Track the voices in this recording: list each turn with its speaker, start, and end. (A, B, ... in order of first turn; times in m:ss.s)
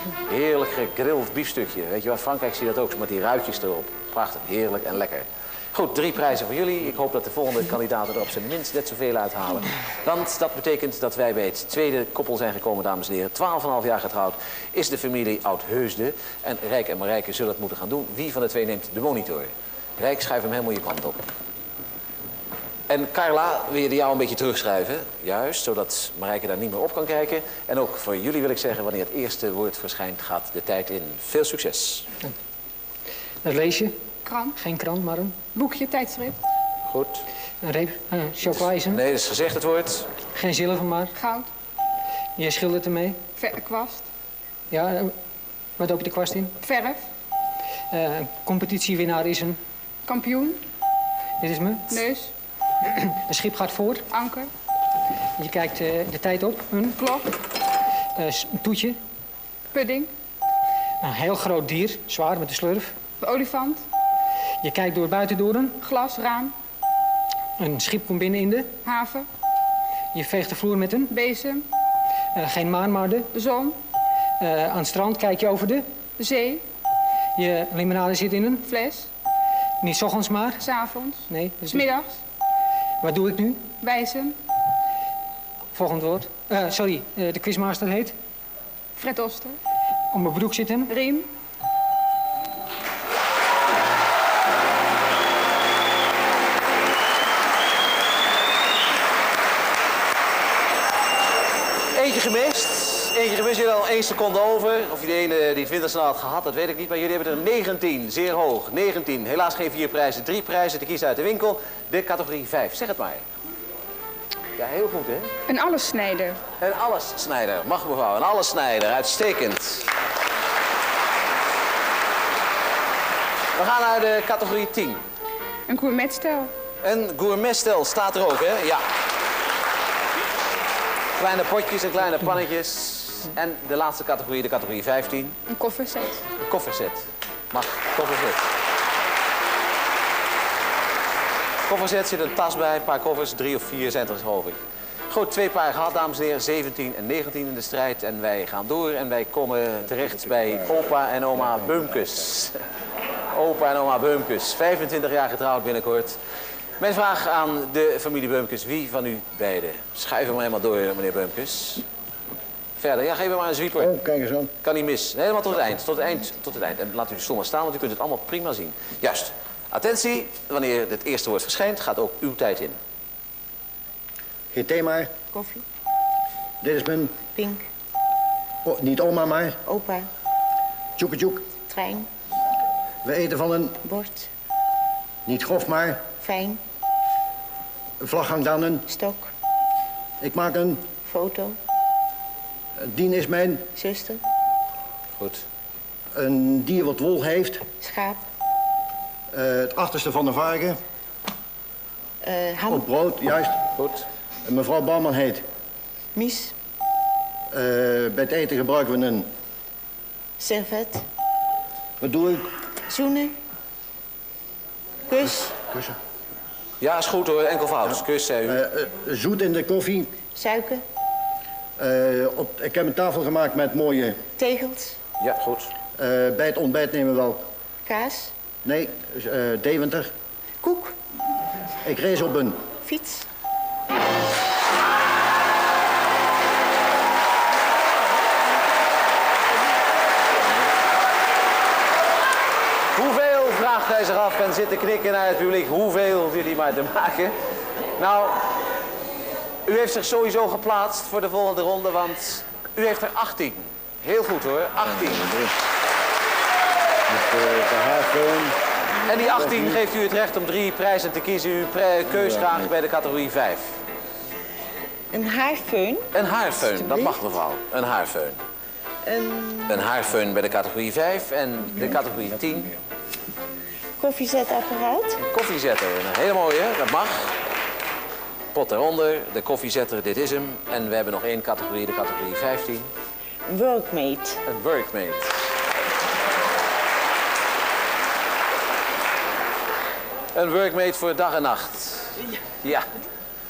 0:00.3-0:21.2 A
0:22.9-0:32.0 A
0:33.4-0:34.0 B
0:34.2-0:34.5 C
0:34.6-0:35.4 B
0:35.5-0:36.4 C
0:36.9-0:37.2 A
0:37.6-0:39.0 B
0:38.4-0:40.1 A
0:40.3-0:41.1 B
0:41.1-0:41.5 C
0:42.4-0:43.2 B
0:43.4-0:44.1 C
0:44.7-0:45.1 B
0:45.8-0:46.5 B
0:46.6-0:47.0 C
0:47.9-0:49.6 B
0:50.1-0:50.6 C
0:51.4-0:52.0 B
0:51.9-0:52.3 C
0:53.3-0:54.0 B
0:54.1-0:54.5 C
0:55.4-0:57.0 B
0:57.0-0:57.3 C
0:58.2-0:59.0 B
0:59.7-1:00.1 C
1:01.0-1:02.9 B
1:03.2-1:03.8 C
1:04.6-1:05.8 B
1:05.8-1:06.5 C
1:07.6-1:08.7 B
1:08.8-1:09.3 C
1:10.1-1:11.1 B
1:11.1-1:11.6 C
1:12.3-1:13.3 B
1:13.3-1:13.8 C
1:14.4-1:15.9 B
1:16.2-1:16.6 C
1:17.4-1:18.6 B
1:18.6-1:19.1 C
1:19.8-1:20.6 B
1:20.6-1:22.1 C
1:21.3-1:21.9 B
1:23.0-1:23.6 B
1:23.8-1:24.4 C
1:25.7-1:28.1 B
1:29.0-1:29.6 C
1:30.1-1:30.9 B
1:30.9-1:31.3 C
1:41.9-1:53.2 A
1:54.6-1:55.3 A
1:55.5-1:56.4 C
1:56.6-1:59.8 A
2:03.5-2:05.0 A
2:05.7-2:06.5 C
2:06.8-2:08.8 A
2:11.2-2:15.4 A
2:15.5-2:16.2 C
2:16.4-2:18.4 A
2:21.6-2:24.6 A
2:25.1-2:32.6 A
2:33.3-2:36.2 A
2:36.8-2:41.8 A
2:42.8-2:44.0 A
2:43.8-2:44.5 D
2:44.6-2:52.8 A
2:54.5-2:55.1 D
2:55.3-2:55.6 E
2:56.6-2:57.2 D
2:57.3-2:57.6 E
2:58.6-2:59.6 D
2:59.6-3:00.1 E
3:01.0-3:01.5 D
3:01.6-3:02.1 E
3:03.0-3:03.8 D
3:03.8-3:04.3 E
3:05.2-3:06.0 D
3:06.2-3:06.6 E
3:08.0-3:08.8 D
3:08.9-3:09.3 E
3:10.2-3:10.8 D
3:11.0-3:11.6 E
3:12.8-3:13.7 D
3:13.7-3:14.2 E
3:15.2-3:15.4 A
3:16.1-3:17.6 D
3:17.8-3:18.2 E
3:19.3-3:20.8 D
3:22.2-3:22.9 E
3:22.7-3:23.7 D
3:24.4-3:25.4 D
3:26.1-3:26.5 E
3:27.5-3:29.3 D
3:30.4-3:31.0 E
3:32.0-3:32.4 D
3:32.9-3:33.4 E
3:35.1-3:35.6 E
3:36.8-3:38.6 A
3:38.4-3:40.1 D
3:40.3-3:40.8 E
3:41.8-3:44.2 D
3:44.4-3:45.0 E
3:45.2-3:45.7 A
3:46.0-3:47.4 D
3:47.8-3:48.3 E
3:48.6-3:50.1 D
3:50.6-3:50.9 E
3:51.8-3:52.6 D
3:52.8-3:53.2 E
4:02.9-4:07.3 A
4:08.0-4:08.5 A
4:09.6-4:15.4 A
4:17.1-4:18.6 D
4:19.1-4:23.8 A
4:19.2-4:19.8 D
4:22.1-4:22.7 D
4:25.1-4:27.2 E
4:26.1-4:28.4 A
4:29.0-4:29.9 E
4:29.7-4:32.7 A
4:34.0-4:35.2 E
4:35.2-4:37.3 A
4:38.5-4:42.9 A
4:43.5-4:44.4 E
4:44.4-4:45.3 A
4:50.3-4:52.8 A